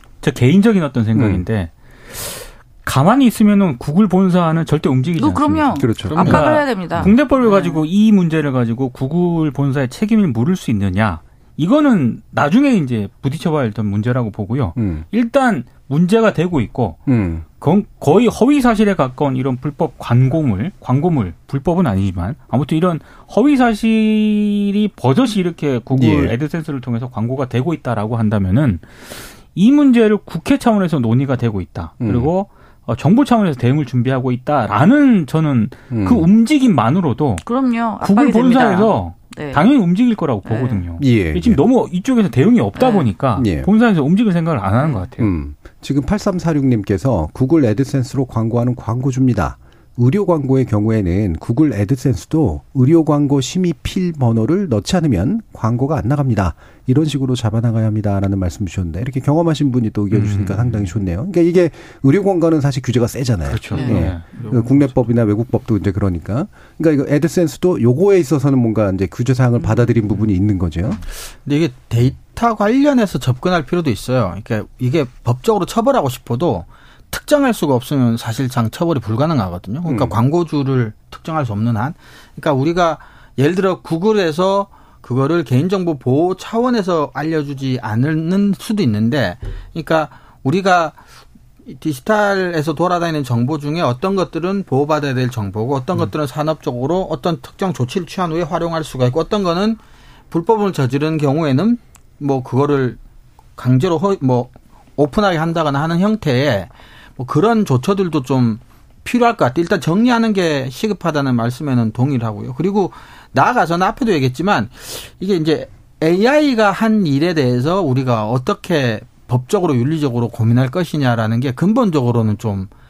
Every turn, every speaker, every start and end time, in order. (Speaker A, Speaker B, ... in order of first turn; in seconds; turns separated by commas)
Speaker A: 0.2-17.0, Speaker B: 1.1-1.4, Speaker C: 5.2-7.8, Speaker B: 5.8-6.5, Speaker D: 6.1-6.4, Speaker B: 14.8-15.1, Speaker B: 17.1-17.4, Speaker A: 17.6-37.5, Speaker B: 25.9-26.3, Speaker B: 32.0-32.3, Speaker B: 35.9-36.3, Speaker C: 37.5-39.6, Speaker A: 38.0-45.3, Speaker C: 40.5-40.8, Speaker B: 41.0-41.6, Speaker C: 42.8-43.1, Speaker B: 43.4-43.7, Speaker B: 45.2-71.0, Speaker A: 60.1-60.9, Speaker A: 63.5-64.4, Speaker D: 63.7-65.0, Speaker D: 71.5-91.0, Speaker B: 79.8-80.2, Speaker D: 91.7-99.8, Speaker D: 100.3-103.0, Speaker D: 103.6-122.7